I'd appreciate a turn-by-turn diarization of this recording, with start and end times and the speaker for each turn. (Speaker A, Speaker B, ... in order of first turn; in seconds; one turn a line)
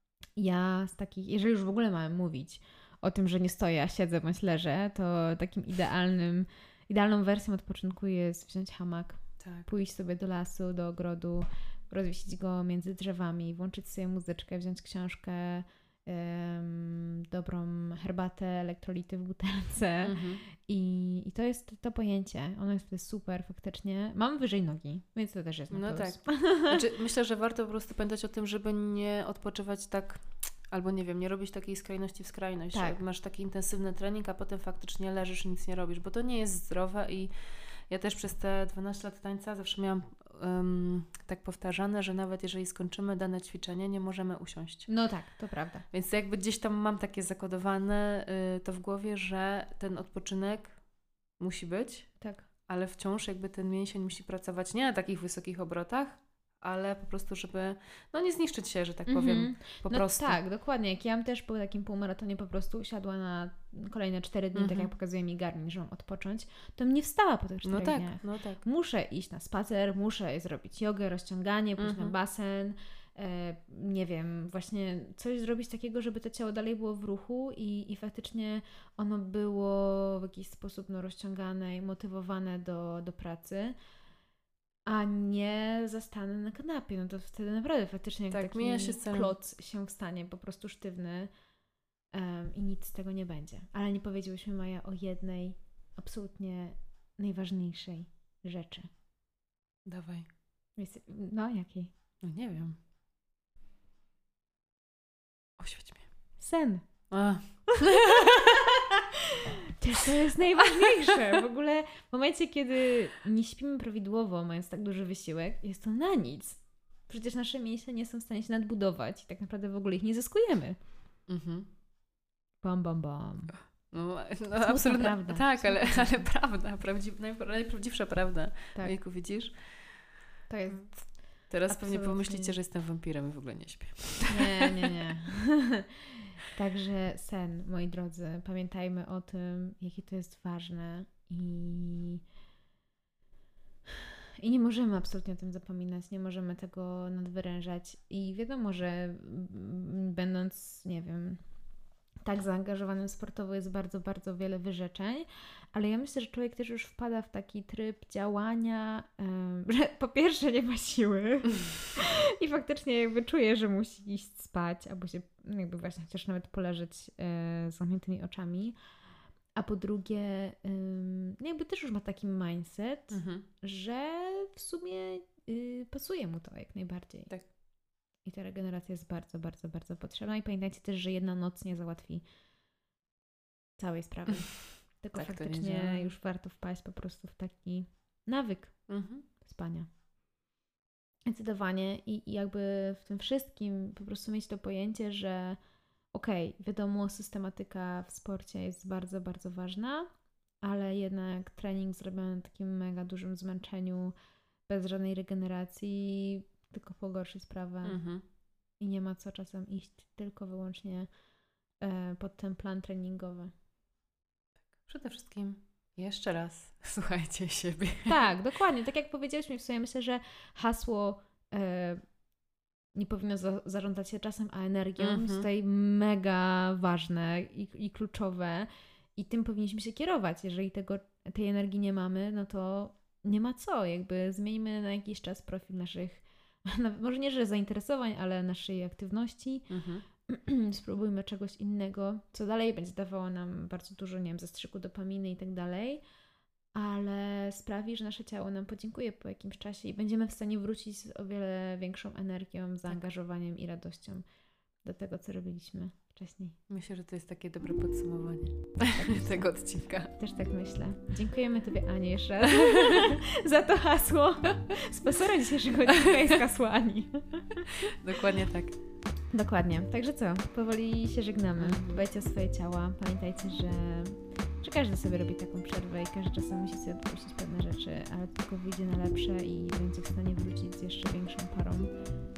Speaker A: 0.4-26.8
Speaker B: 9.4-9.7
Speaker B: 20.0-20.4
Speaker B: 25.7-45.2
Speaker A: 32.7-33.0
Speaker A: 44.9-45.9
Speaker B: 45.9-60.4
Speaker A: 52.2-52.5
Speaker A: 59.1-83.8
Speaker B: 64.5-64.9
Speaker B: 67.6-68.6
Speaker B: 71.8-72.1
Speaker A: 84.9-91.3
Speaker B: 88.3-89.4
Speaker A: 92.1-98.9
Speaker B: 99.8-100.3
Speaker A: 100.8-101.9
Speaker B: 102.2-102.8
Speaker B: 105.6-106.3
Speaker A: 106.4-107.5
Speaker B: 107.1-108.5
Speaker A: 109.8-120.8
Speaker B: 121.3-121.7
Speaker A: 122.6-123.9
Speaker B: 123.9-134.5
Speaker A: 124.6-126.3
Speaker A: 130.5-132.6
Speaker A: 134.3-135.9
Speaker A: 136.5-142.2
Speaker A: 144.4-151.4
Speaker A: 152.2-168.8
Speaker A: 169.6-177.5
Speaker B: 173.1-173.4
Speaker A: 178.2-182.2
Speaker A: 183.8-189.9
Speaker B: 185.1-186.1
Speaker B: 188.9-189.3
Speaker A: 191.3-195.6
Speaker A: 196.1-204.1
Speaker A: 204.7-211.1
Speaker B: 207.8-208.2
Speaker A: 211.8-213.5
Speaker B: 214.8-218.2
Speaker A: 218.1-222.1
Speaker A: 222.9-246.0
Speaker B: 225.0-225.5
Speaker B: 239.7-240.1
Speaker A: 246.7-254.2
Speaker A: 254.8-256.6
Speaker B: 256.7-260.1
Speaker A: 258.9-267.8
Speaker B: 267.9-268.8
Speaker A: 269.3-282.0
Speaker B: 271.6-272.0